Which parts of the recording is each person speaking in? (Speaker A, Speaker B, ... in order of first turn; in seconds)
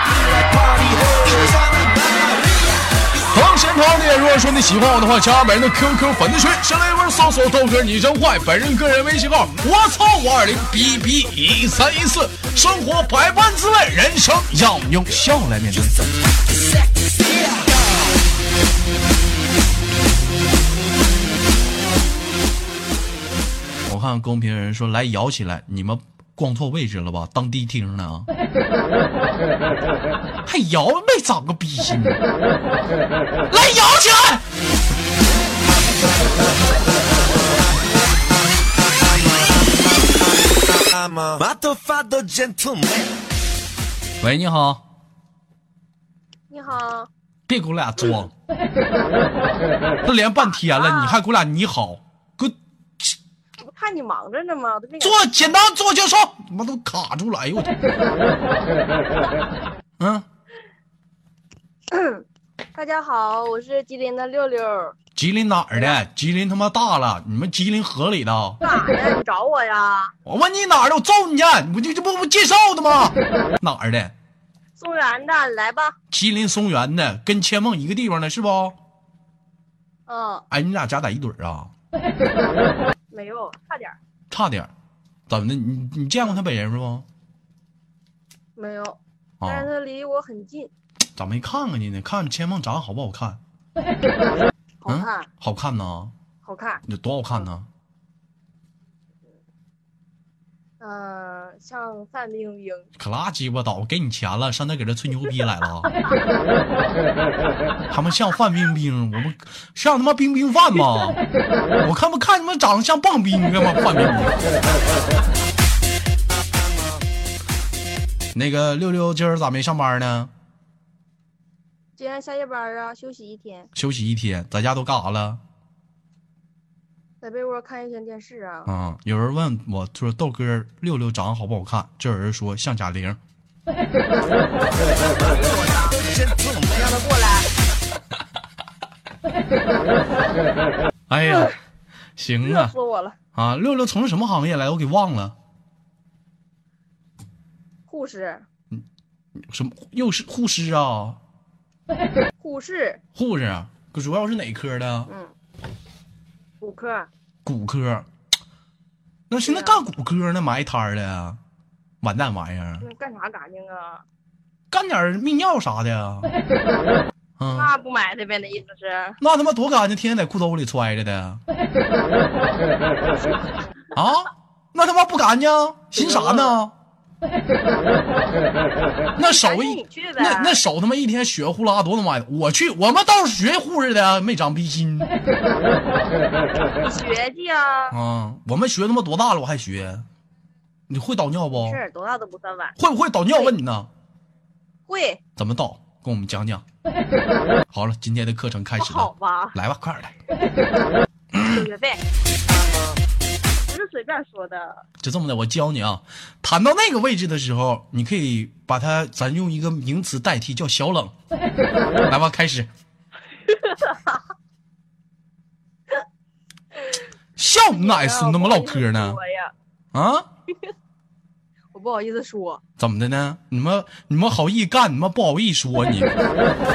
Speaker A: 0.7-1.4, 41.3-43.1, 136.0-137.4
Speaker B: 3.3-16.1, 23.9-28.3, 30.4-32.2, 33.5-34.5, 44.2-44.8, 47.5-48.3, 50.0-53.2, 55.0-57.7, 60.0-60.3, 65.2-68.6, 70.2-74.1, 76.1-78.8, 80.5-81.7, 84.3-84.7, 85.3-87.1, 89.4-89.7, 91.2-93.4, 94.9-96.1, 96.9-97.7, 103.0-106.0, 107.9-111.2, 111.8-114.4, 118.3-120.3, 123.8-125.4, 128.7-133.2, 141.1-141.6, 142.2-142.7, 143.3-145.3, 149.4-151.2, 153.2-155.1, 157.4-158.1, 159.3-161.4, 162.0-162.8, 164.7-166.3, 167.4-167.7, 169.2-171.4, 173.9-176.7, 179.2-185.1, 187.9-190.1, 190.9-191.8, 192.8-193.9, 195.4-196.6, 197.7-200.1, 201.4-201.7, 205.0-211.1, 212.1-212.7, 217.4-219.2, 219.9-220.3, 222.8-226.2
Speaker C: 46.5-47.1, 50.5-51.2, 53.6-55.6, 61.9-65.0, 68.6-70.1, 74.8-76.0, 80.1-80.5, 83.1-84.0, 88.6-90.7, 94.8-95.3, 96.4-96.8, 100.8-102.9, 122.0-123.7, 127.2-128.7, 135.6-135.9, 142.4-143.2, 147.9-148.4, 152.4-153.0, 155.1-155.3, 156.6-157.1, 159.4-159.8, 162.8-164.0, 167.5-169.2, 173.0-173.5, 176.0-176.5, 179.2-180.6, 186.8-187.9, 191.5-192.8, 194.9-195.2, 198.8-199.6, 201.4-202.0, 203.7-204.8, 213.5-214.1, 217.7-219.5, 221.7-222.6